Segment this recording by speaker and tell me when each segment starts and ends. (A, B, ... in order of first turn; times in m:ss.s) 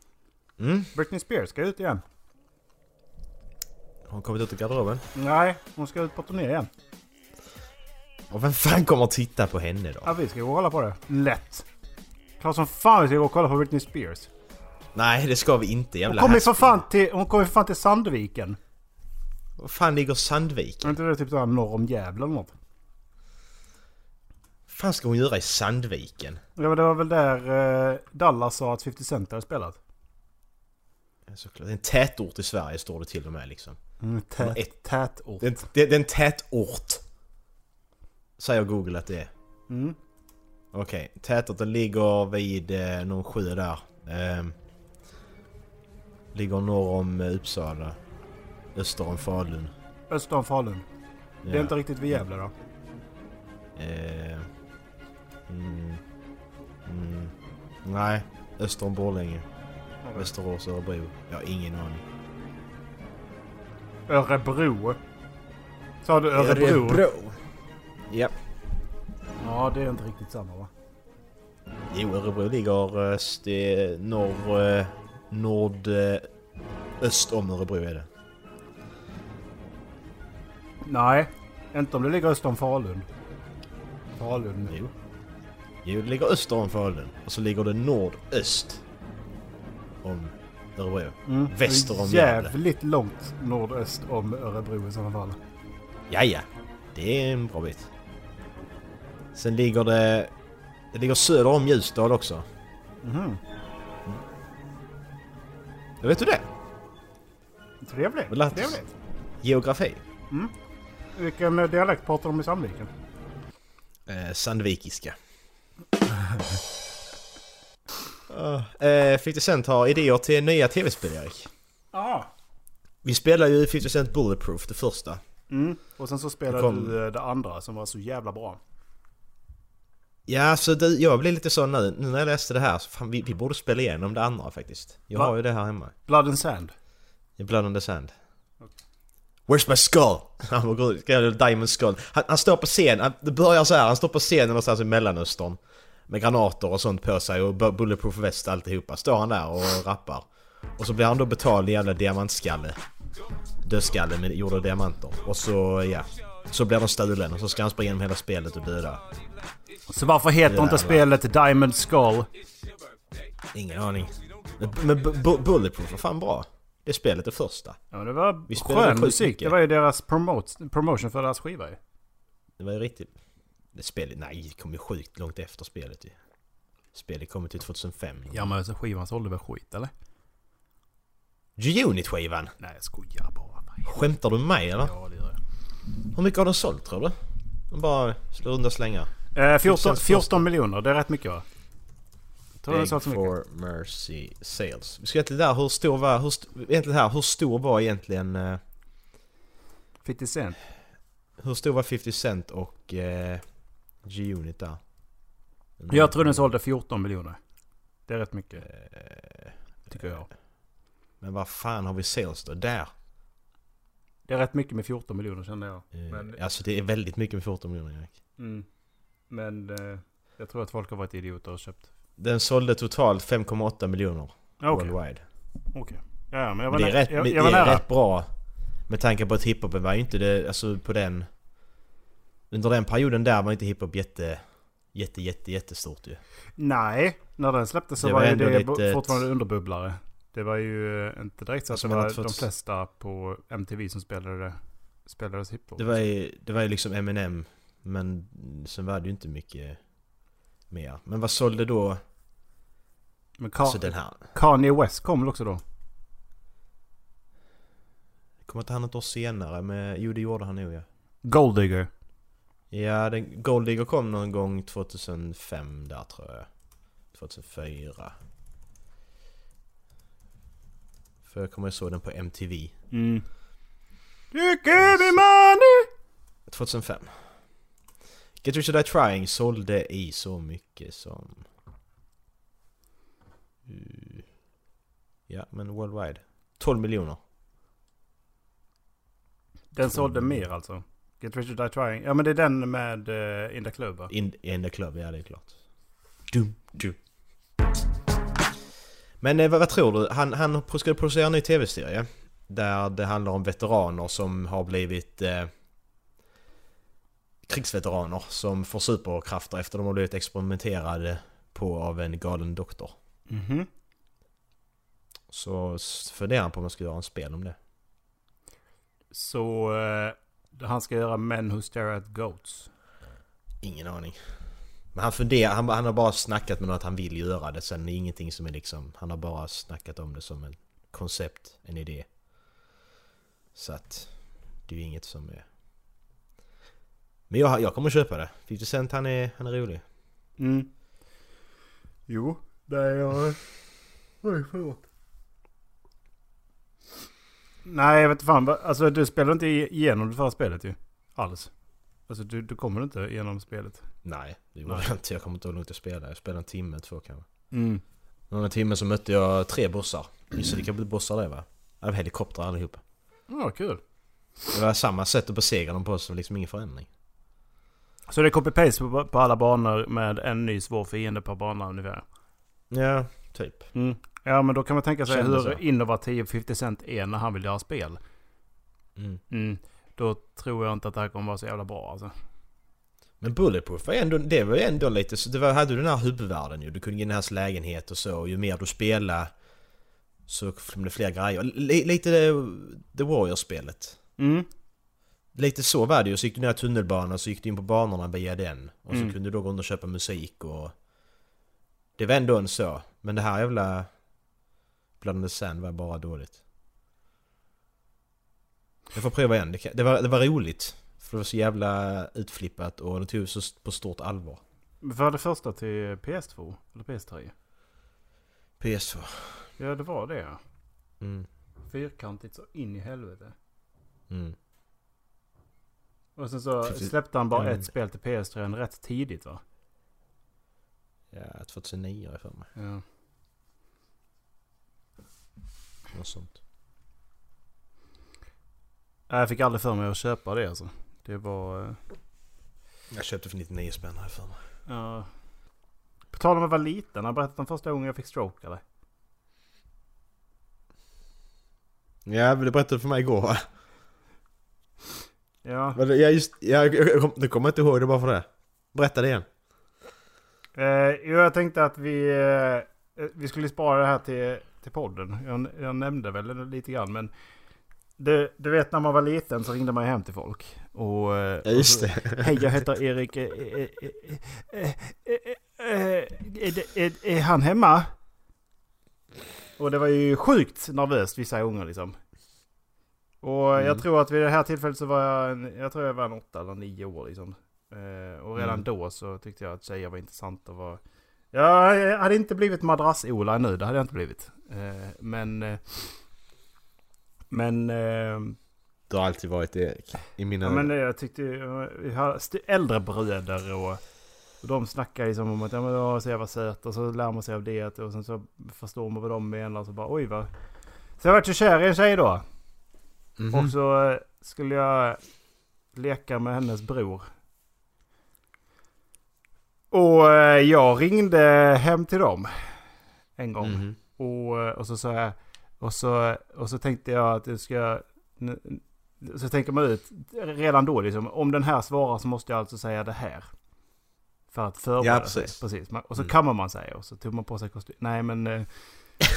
0:00.6-0:00.9 A
0:00.9-0:02.0 B
0:04.1-0:05.0 A
0:05.2-0:06.7 B
0:08.3-0:10.1 A
0:10.0-0:11.6 B
0:12.4-0:14.3 B
0:14.9-0:16.8 A
0:16.1-0:18.6 B
0:19.6-0:21.0 A
0:20.8-0:22.5 B
0:24.7-0:26.4 A
0:26.6-0:29.8 B
0:31.3-0:33.8 A
0:34.0-0:35.6 B
0:34.4-0:34.7 A
0:35.4-0:37.0 A
0:38.4-0:39.3 A
0:39.7-0:40.0 B
0:40.7-0:44.6 A
0:46.3-0:48.0 A
0:48.7-0:49.7 A
0:50.1-0:50.8 B
0:51.4-0:52.2 A
0:51.5-0:52.5 B
0:53.8-0:54.5 A
0:55.5-0:56.0 A
0:56.8-0:59.4 A
1:00.0-1:00.3 B
1:00.2-1:02.0 A
1:04.1-1:05.0 B
1:06.0-1:07.0 B
1:06.3-1:07.4 A
1:08.1-1:08.4 A
1:09.4-1:10.7 B
1:11.9-1:16.3 A
1:17.0-1:18.1 A
1:20.8-1:23.0 B
1:24.2-1:24.7 B
1:24.7-1:24.9 A
1:25.8-1:28.8 A
1:30.0-1:32.5 A
1:31.2-1:35.4 B
1:36.1-1:37.9 A
1:39.3-1:40.3 A
1:40.9-1:42.4 A
1:43.0-1:43.4 B
1:46.0-1:46.5 A
1:47.8-1:48.9 B
1:48.3-1:48.8 A
1:49.4-1:50.0 A
1:51.2-1:52.9 B
1:54.1-1:55.2 A
1:58.3-2:01.5 A
2:01.9-2:02.3 B
2:03.0-2:05.2 A
2:05.5-2:08.6 B
2:06.5-2:06.9 A
2:10.3-2:15.9 A
2:16.1-2:16.7 B
2:17.4-2:18.1 A
2:19.5-2:30.2 A
2:30.8-2:32.8 A
2:33.6-2:39.0 A
2:39.9-2:42.3 B
2:40.4-2:41.1 A
2:43.5-2:47.8 A
2:47.9-2:51.8 B
2:48.5-2:49.6 A
2:52.6-2:53.1 A
2:53.7-2:56.1 A
2:56.9-2:58.5 A
2:58.3-2:59.9 B
3:01.6-3:02.5 A
3:02.6-3:04.0 B
3:03.8-3:04.9 A
3:04.8-3:05.4 B
3:06.1-3:07.1 A
3:07.7-3:09.1 A
3:09.3-3:11.4 B
3:09.6-3:10.4 A
3:12.6-3:13.3 B
3:12.7-3:18.6 A
3:20.0-3:20.6 B
3:21.4-3:23.4 A
3:24.0-3:24.8 A
3:25.8-3:26.5 A
3:25.9-3:27.4 B
3:28.1-3:28.6 B
3:28.6-3:30.2 A
3:29.9-3:30.2 B
3:31.2-3:32.9 A
3:34.3-3:36.4 B
3:35.9-3:38.1 A
3:38.4-3:38.6 B
3:39.3-3:41.9 B
3:42.2-3:45.2 A
3:44.6-3:44.9 B
3:45.7-3:47.8 B
3:46.7-3:48.3 A
3:48.9-3:51.3 A
3:52.5-3:56.2 A
3:56.6-4:06.0 B
3:58.0-3:59.2 A
4:01.7-4:02.4 A
4:05.8-4:09.8 A
4:10.7-4:12.0 A
4:13.4-4:15.6 B
4:13.6-4:14.2 A
4:18.4-4:20.8 A
4:21.2-4:21.9 B
4:22.7-4:26.5 A
4:27.1-4:28.2 A
4:31.2-4:32.7 A
4:32.9-4:33.2 B
4:34.3-4:35.9 B
4:34.8-4:35.2 A
4:36.5-4:37.1 A
4:38.4-4:41.4 A
4:43.6-4:44.2 A
4:45.3-4:47.2 A
4:49.7-4:54.1 B
4:49.8-4:50.4 A
4:54.1-4:55.5 A
4:56.3-4:57.0 A
4:59.2-5:05.5 A
5:07.5-5:13.0 A
5:13.3-5:13.7 B
5:15.3-5:17.6 A
5:19.1-5:22.7 B
5:23.6-5:24.2 A
5:24.9-5:32.1 A
5:33.5-5:34.1 A
5:34.7-5:35.4 A
5:37.3-5:39.8 A
5:40.4-5:40.7 B
5:42.1-5:43.4 B
5:44.2-5:44.8 B
5:47.6-5:51.5 B
5:52.1-5:53.8 B
5:54.0-5:57.2 A
5:57.5-5:57.8 B
5:58.3-6:02.8 A
6:03.3-6:03.8 B
6:04.5-6:06.9 A
6:08.1-6:12.0 B
6:12.7-6:13.7 A
6:13.7-6:18.0 B
6:15.1-6:15.6 A
6:19.0-6:19.2 A
6:19.3-6:22.1 B
6:23.2-6:29.3 A
6:30.3-6:34.0 A
6:34.2-6:34.5 B
6:35.3-6:40.7 A
6:42.0-6:43.9 A
6:45.0-6:46.4 A
6:48.9-6:54.4 A
6:54.8-6:57.3 B
6:58.6-6:59.4 A
6:59.6-7:00.4 B
7:01.0-7:01.3 A
7:01.7-7:03.3 B
7:04.1-7:04.4 A
7:06.2-7:09.4 B
7:06.6-7:07.6 A
7:11.1-7:12.5 A
7:12.6-7:12.8 B
7:15.9-7:16.4 A
7:19.1-7:21.8 B
7:22.9-7:24.4 A
7:24.7-7:25.1 B
7:26.1-7:28.6 B
7:32.0-7:33.4 A
7:35.4-7:35.8 B
7:35.7-7:39.2 A
7:40.6-7:47.1 B
7:48.0-7:57.9 B
7:51.4-7:52.5 A
7:59.6-8:02.0 B
8:03.2-8:10.8 B
8:03.6-8:03.8 A
8:08.4-8:08.6 A
8:11.3-8:15.9 B
8:17.3-8:18.4 B
8:18.9-8:20.7 A
8:20.4-8:23.8 B
8:24.4-8:30.3 B
8:31.0-8:32.2 B
8:33.2-8:33.5 A
8:33.3-8:35.0 B
8:35.7-8:37.1 B
8:39.7-8:42.3 B
8:43.2-8:53.3 B
8:43.4-8:43.8 A
8:54.3-8:58.5 B
8:54.8-8:55.4 A